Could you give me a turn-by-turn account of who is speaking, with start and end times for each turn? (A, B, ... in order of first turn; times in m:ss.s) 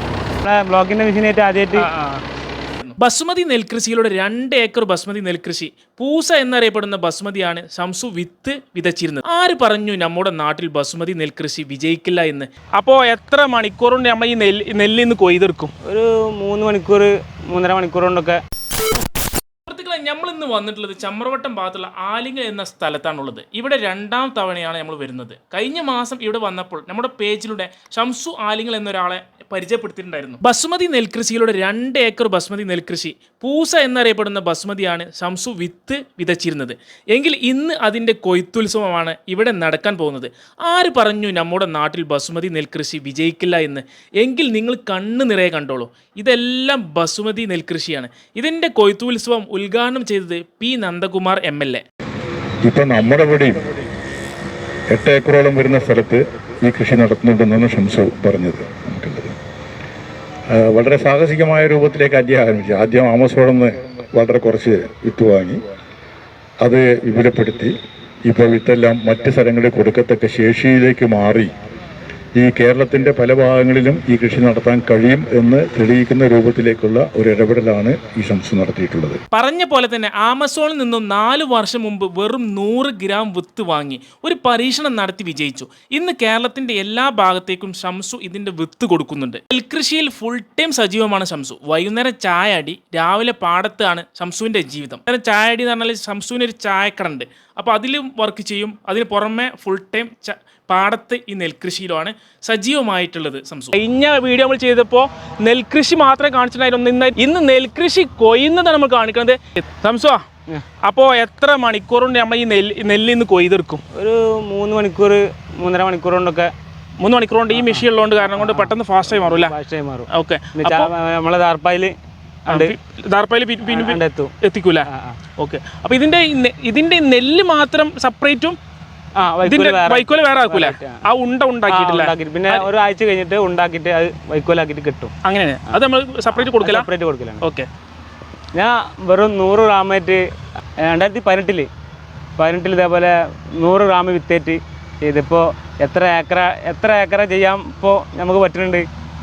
0:00.4-0:01.9 A
0:01.8-0:02.2 B
0:02.8-0:15.7 B
0:15.9-0:18.4 A
0:19.7-0:51.8 B
0:52.6-0:53.6 C
0:54.9-0:59.3 C
1:00.5-1:05.6 C
1:06.6-1:07.7 C
1:08.3-1:11.5 C
1:12.4-1:19.2 C
1:19.3-1:50.2 B
1:50.8-1:53.8 B
1:54.0-1:56.5 A
1:57.0-1:59.5 B
1:57.5-2:01.9 A
2:00.1-2:00.9 B
2:02.5-2:02.7 A
2:02.5-2:04.9 B
2:03.7-2:04.3 A
2:04.9-2:05.2 A
2:05.4-2:08.6 B
2:09.2-2:11.0 A
2:09.4-2:12.7 B
2:11.7-2:15.1 A
2:15.2-2:16.9 B
2:16.3-2:17.4 A
2:17.4-2:17.7 B
2:18.6-2:20.2 A
2:20.8-2:21.7 A
2:22.4-2:28.9 A